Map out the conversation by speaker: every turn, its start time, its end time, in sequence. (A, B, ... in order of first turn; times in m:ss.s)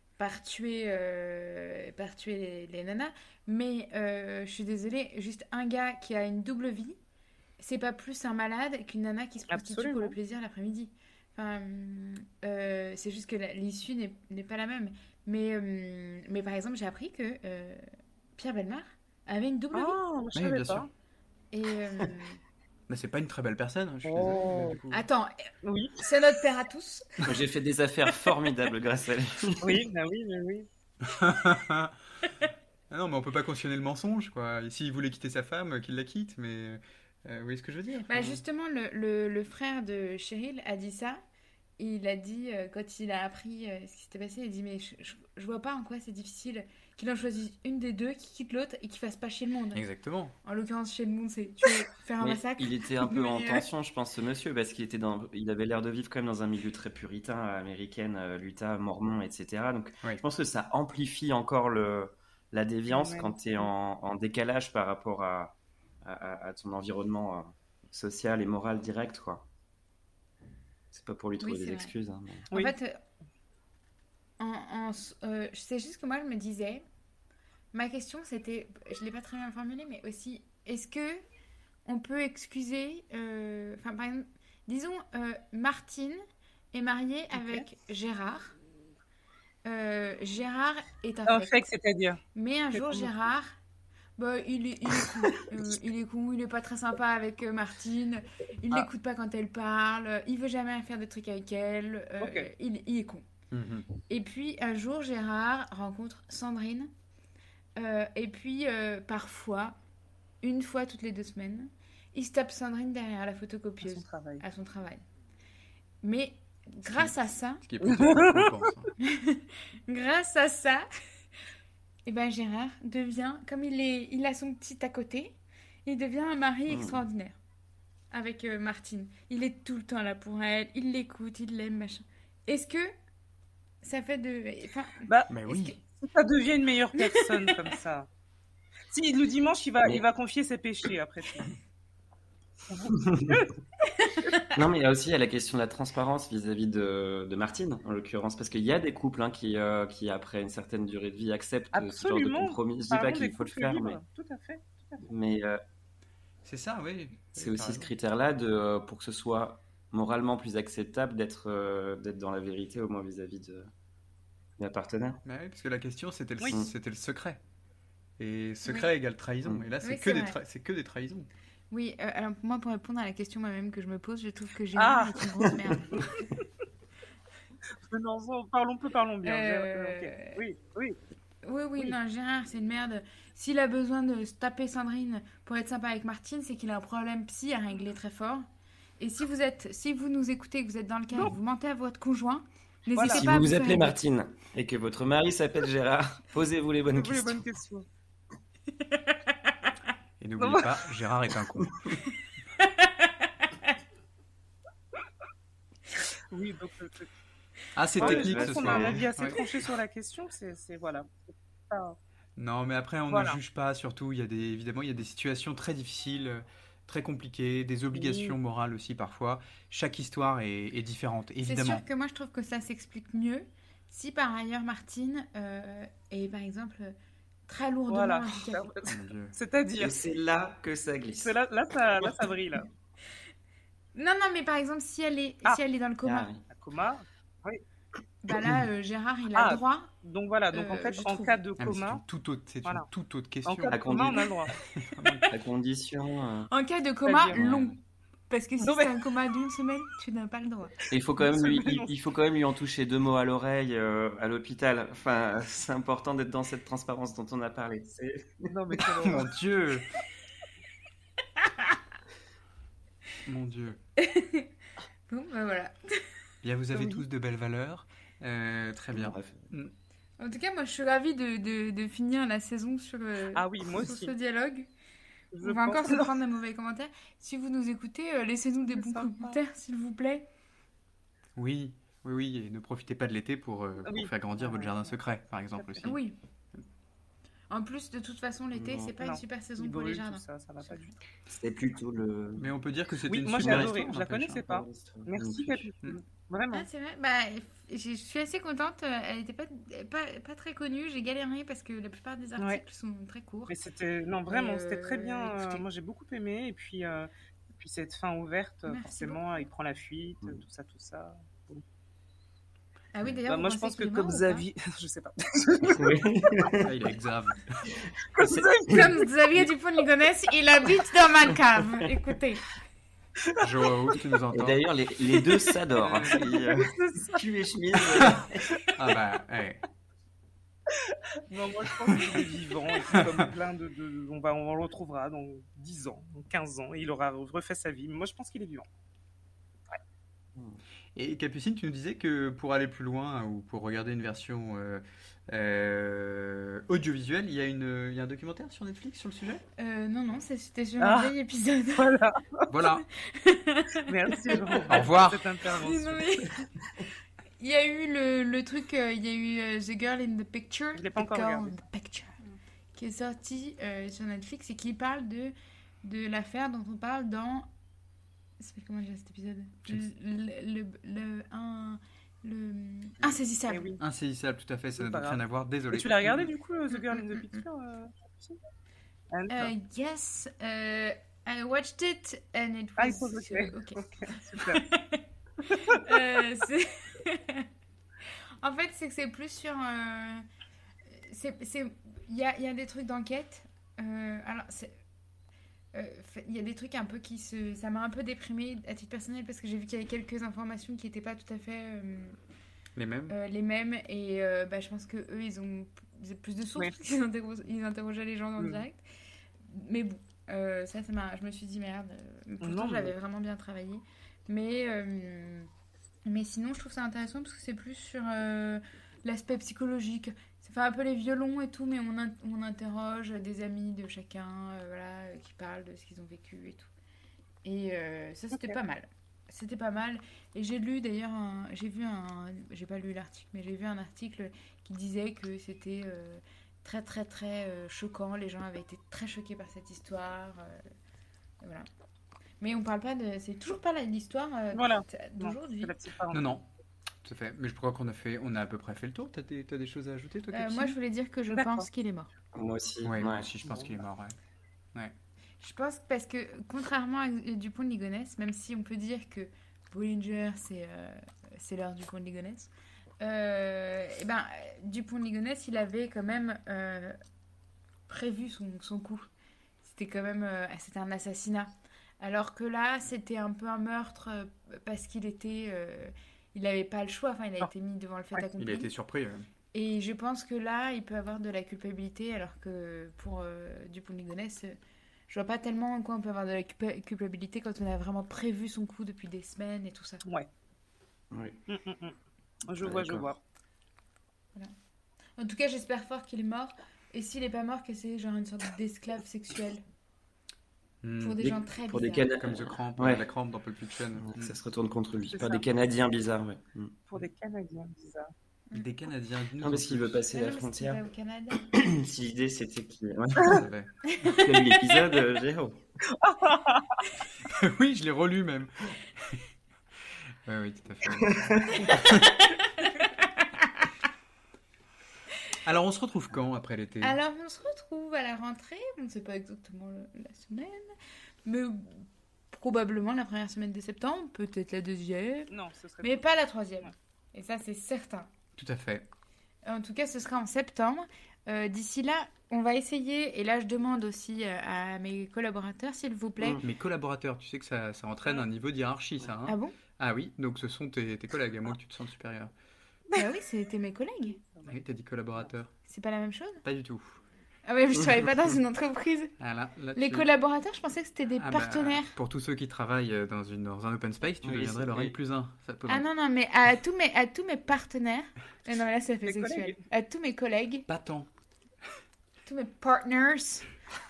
0:00.2-0:07.0 A
0:07.6-0:17.8 A
0:09.5-0:10.2 B
0:18.4-0:20.0 A
0:19.7-0:20.9 B
0:20.3-0:20.9 C
0:21.5-0:22.4 A
0:22.9-0:25.0 C
0:24.0-0:24.8 B
0:24.9-0:25.3 A
0:25.6-0:26.0 B
0:26.0-0:27.2 A
0:27.2-0:29.8 D
0:29.6-0:30.7 B
0:31.0-0:32.0 C
0:32.9-0:38.4 C
0:38.1-0:41.2 A
0:41.8-0:49.8 A
0:49.7-0:50.3 C
0:50.4-0:53.7 A
0:52.2-1:09.5 D
1:02.9-1:03.3 B
1:10.9-1:12.4 D
1:11.4-1:11.9 A
1:12.5-1:12.7 B
1:12.5-1:13.0 A
1:14.4-1:16.8 A
1:17.7-1:21.2 A
1:21.8-1:26.2 A
1:26.7-1:28.5 A
1:27.3-1:27.6 B
1:29.6-1:31.7 A
1:31.3-1:32.2 B
1:32.3-1:33.6 A
1:32.7-1:33.1 B
1:34.2-1:43.2 A
1:42.2-1:42.5 B
1:43.5-1:43.9 C
1:44.1-1:46.9 A
1:47.8-1:49.8 A
1:50.4-1:55.0 A
1:53.8-1:54.4 B
1:56.0-1:57.6 A
1:57.6-1:58.9 C
1:57.8-1:58.5 B
1:59.0-2:00.9 A
2:02.0-2:07.4 A
2:06.7-2:07.0 D
2:08.1-2:12.9 A
2:13.8-2:15.8 A
2:15.1-2:15.4 B
2:15.3-2:15.8 C
2:16.0-2:18.1 B
2:18.9-2:21.5 B
2:22.7-2:23.5 B
2:22.9-2:23.4 D
2:24.5-2:34.0 D
2:31.7-2:35.1 B
2:35.0-2:35.6 D
2:36.4-2:37.9 C
2:37.4-2:43.7 D
2:44.6-2:45.2 D
2:45.2-2:47.4 C
2:48.2-2:51.3 C
2:49.8-2:50.4 A
2:51.7-2:56.0 A
2:54.8-2:56.1 B
2:57.8-3:01.0 B
2:59.2-3:00.4 A
3:01.4-3:08.5 A
3:09.0-3:14.0 A
3:13.0-3:13.3 B
3:13.1-3:17.5 D
3:16.9-3:17.9 B
3:20.2-3:21.7 C
3:20.4-3:20.9 B
3:26.3-3:27.1 B
3:27.8-3:29.4 C
3:27.9-3:32.0 B
3:28.0-3:29.1 D
3:32.4-3:41.8 C
3:33.1-3:33.4 B
3:37.9-3:38.4 B
3:41.4-3:46.9 A
3:47.5-3:48.7 A
3:47.9-3:49.9 B
3:48.9-3:49.3 C
3:49.8-3:51.4 D
3:51.2-3:52.7 B
3:53.9-3:56.3 A
3:56.0-3:56.4 D
3:56.5-3:57.6 B
3:58.2-3:59.9 A
3:59.4-4:02.0 B
4:00.5-4:01.4 A
4:01.6-4:05.2 C
4:03.4-4:04.5 B
4:03.7-4:04.2 D
4:05.3-4:06.5 D
4:06.5-4:07.8 A
4:07.0-4:07.4 B
4:07.3-4:07.8 D
4:08.3-4:10.7 A
4:08.6-4:09.0 B
4:10.9-4:18.5 D
4:10.9-4:11.9 B
4:18.5-4:19.3 B
4:19.0-4:19.8 C
4:23.2-4:23.8 C
4:24.0-4:24.5 A
4:25.1-4:26.0 A
4:26.4-4:29.7 C
4:28.9-4:29.5 D
4:30.2-4:34.7 A
4:33.3-4:34.1 B
4:35.3-4:36.1 B
4:35.4-4:40.3 A
4:38.7-4:39.4 B
4:41.4-4:46.0 C
4:43.8-4:44.7 B
4:45.6-4:45.9 B
4:45.8-4:46.2 A
4:47.5-4:50.9 A
4:48.5-4:48.9 D
4:49.0-4:51.0 B
4:51.3-4:52.5 D
4:52.4-4:54.4 C
4:53.1-4:56.7 B
4:53.4-4:53.7 D
4:54.4-4:55.7 D
4:56.5-5:03.6 A
5:03.5-5:11.6 B
5:04.3-5:05.6 A
5:08.7-5:09.2 A
5:12.9-5:14.4 A
5:13.3-5:16.0 B
5:15.6-5:16.7 D
5:16.6-5:17.6 C
5:18.2-5:18.8 B
5:18.2-5:18.9 D
5:18.6-5:22.4 A
5:23.4-5:24.6 C
5:24.3-5:28.5 D
5:25.8-5:26.5 C
5:26.2-5:27.2 B
5:28.6-5:28.9 B
5:28.8-5:29.6 C
5:31.3-5:38.7 B
5:32.9-5:33.2 C
5:40.9-5:49.4 C
5:49.6-5:51.9 A
5:50.8-5:51.1 B
5:51.8-5:52.5 B
5:52.5-5:52.8 C
5:53.1-5:54.7 A
5:53.8-5:56.1 B
5:54.7-5:55.2 C
5:55.5-5:56.4 A
5:57.4-6:02.1 A
6:00.8-6:01.6 B
6:02.8-6:07.5 A
6:08.4-6:13.7 A
6:13.5-6:13.8 B
6:13.8-6:16.3 C
6:14.8-6:18.4 B
6:16.8-6:17.4 A
6:19.1-6:19.5 B
6:19.3-6:27.5 A
6:22.8-6:24.6 B
6:28.4-6:30.2 A
6:30.9-6:34.8 A
6:35.7-6:42.2 A
6:42.8-6:43.1 C
6:43.1-6:48.8 A
6:49.4-6:55.5 A
6:52.4-6:52.9 B
6:56.0-7:06.7 A
7:07.4-7:20.6 A
7:21.4-7:21.7 A
7:22.4-7:25.7 A
7:24.5-7:26.3 B
7:26.1-7:26.4 C
7:27.0-7:30.8 C
7:30.3-7:32.1 A
7:31.3-7:31.6 B
7:32.3-7:33.3 D
7:32.8-7:34.2 C
7:33.4-7:33.7 B
7:35.4-7:47.0 A
7:47.9-7:49.1 A
7:49.6-7:58.7 A
7:58.4-7:59.3 C
7:59.5-8:04.6 A
8:05.1-8:10.0 A
8:11.1-8:11.4 D
8:11.5-8:13.2 B
8:12.6-8:13.1 D
8:15.2-8:19.6 A
8:20.8-8:21.3 C
8:21.0-8:22.1 A
8:21.2-8:23.0 D
8:22.2-8:24.3 C
8:24.0-8:26.8 D
8:25.1-8:25.4 B
8:26.9-8:28.1 B
8:28.5-8:30.0 C
8:29.4-8:30.8 D
8:30.1-8:31.4 A
8:31.4-8:33.4 D
8:33.3-8:34.3 C
8:34.1-8:35.6 D
8:35.9-8:36.8 B
8:37.2-8:39.2 C
8:40.2-8:42.1 C
8:41.1-8:41.7 D
8:45.4-8:47.0 C
8:46.8-8:50.7 A
8:51.2-8:55.3 A
8:55.3-8:56.1 B
8:55.8-8:58.1 A
8:58.4-8:58.9 C
8:59.4-9:06.4 A
9:06.4-9:12.3 C
9:09.3-9:09.5 A
9:13.0-9:14.2 A
9:14.2-9:14.6 B
9:14.4-9:15.5 C
9:15.7-9:16.4 A
9:16.4-9:17.0 C
9:17.4-9:19.1 A
9:19.2-9:20.1 C
9:19.7-9:21.9 A
9:21.2-9:25.8 C
9:24.2-9:25.0 D
9:25.7-9:30.7 A
9:29.0-9:29.6 B
9:30.7-9:31.1 C
9:32.2-9:33.5 A